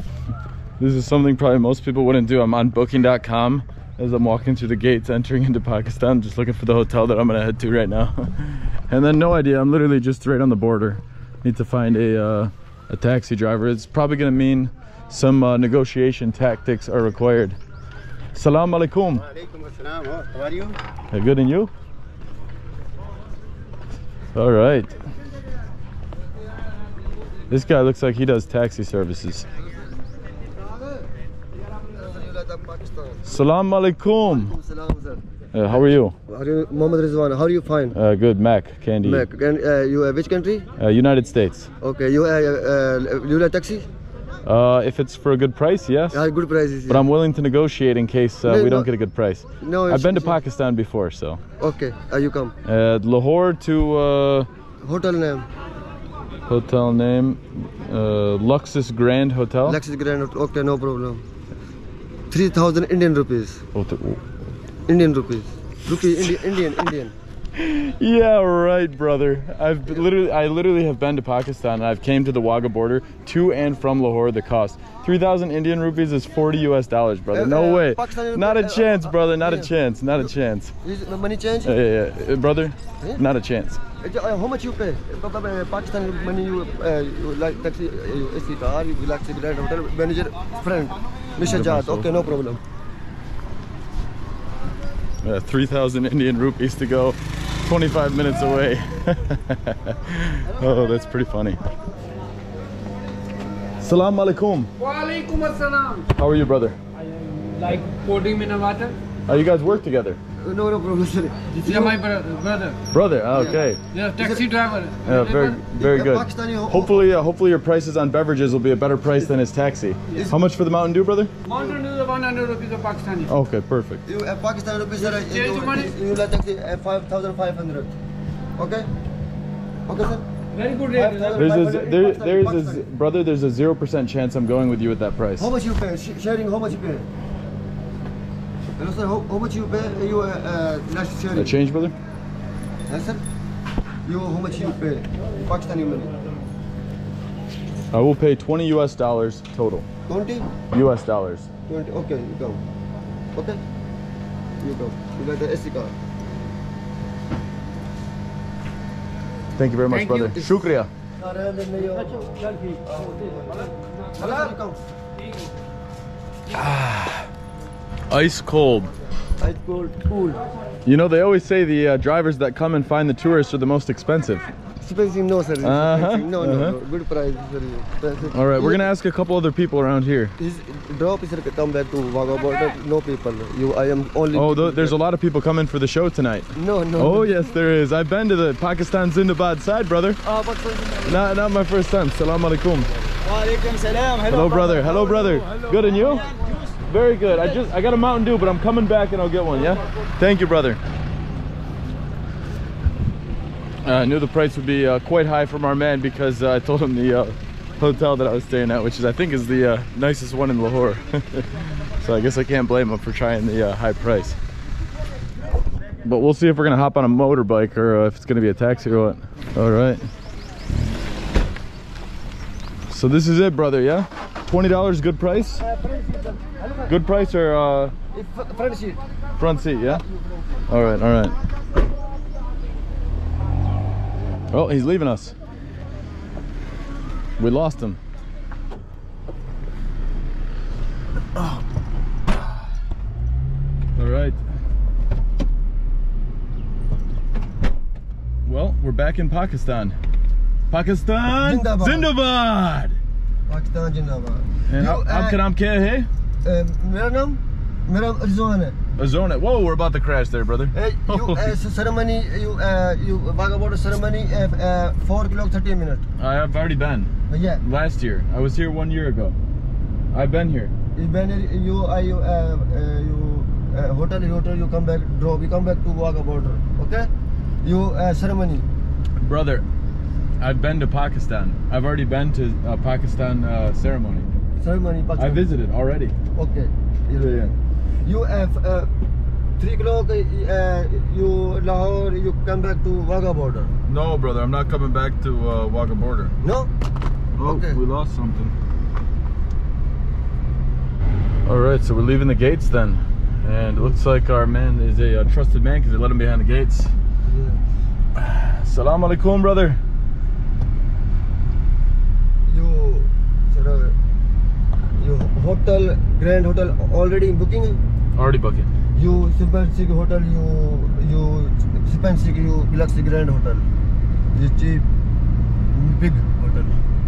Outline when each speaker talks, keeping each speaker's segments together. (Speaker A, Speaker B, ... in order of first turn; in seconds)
Speaker A: 0.8-17.6, 18.3-19.2, 21.1-21.7, 24.3-25.0, 27.5-29.5, 33.2-34.5, 35.5-36.2, 37.9-39.2, 40.8-41.7, 44.4-46.2, 46.9-51.4, 52.6-54.5, 56.5-59.8, 63.7-64.3, 67.5-80.7, 81.6-83.8, 91.4-92.4, 95.2-101.6, 103.8-104.7, 106.2-106.8, 109.3-110.2, 112.9-113.8, 115.0-121.3, 123.3-124.0, 131.3-135.5, 141.3-141.9, 147.9-149.9, 150.7-151.5, 159.6-160.9, 166.5-167.3, 168.1-168.9, 170.8-174.5, 175.6-176.8, 178.3-180.4, 184.3-190.2, 191.1-192.9, 194.3-196.3, 196.9-200.8, 203.8-214.4, 216.0-220.1, 222.9-225.7, 226.9-227.9, 229.4-230.0, 230.7-231.3, 234.5-235.4, 237.4-238.0, 241.3-241.6, 242.3-242.7, 243.9-244.4, 248.4-250.0, 250.7-253.0, 254.7-256.1, 259.0-261.6, 266.2-269.4, 270.1-270.7, 279.2-279.7, 280.4-284.3, 285.2-286.1, 293.9-296.4, 297.4-298.6, 301.4-306.9, 308.2-309.8, 318.1-318.7
Speaker B: 19.5-20.8, 30.7-31.1, 31.9-33.2, 34.3-38.0, 39.0-40.7, 41.8-43.9, 46.1-47.1, 48.4-48.9, 49.6-50.4, 51.6-52.5, 54.8-55.5, 59.6-61.2, 62.3-63.6, 64.9-67.2, 77.3-80.3, 80.8-81.7, 84.0-92.6, 110.4-112.0, 113.3-113.6, 114.2-114.5, 115.7-117.0, 120.1-120.4, 124.1-128.0, 128.6-128.9, 129.9-130.3, 130.8-132.8, 135.4-137.1, 138.8-141.6, 142.9-143.2, 144.1-146.1, 150.1-150.5, 151.7-152.6, 153.3-153.6, 154.6-155.9, 159.9-160.5, 161.2-164.8, 169.4-170.4, 174.8-178.9, 180.4-185.0, 186.6-187.3, 190.2-191.2, 193.2-196.7, 225.6-226.9, 228.1-229.0, 251.3-252.1, 253.5-255.4, 256.4-258.8, 260.7-266.1, 267.3-267.6, 270.9-277.1, 277.6-278.7, 284.6-285.5, 286.4-288.9, 289.6-293.8, 296.4-296.7, 297.4-297.8, 307.2-307.6, 312.5-314.0, 315.0-317.8, 319.0-323.7, 324.3-324.9, 325.7-326.7
Speaker C: 104.8-106.1, 107.1-109.0, 111.5-112.8, 113.9-115.6, 121.5-123.3, 125.0-126.0, 130.5-131.5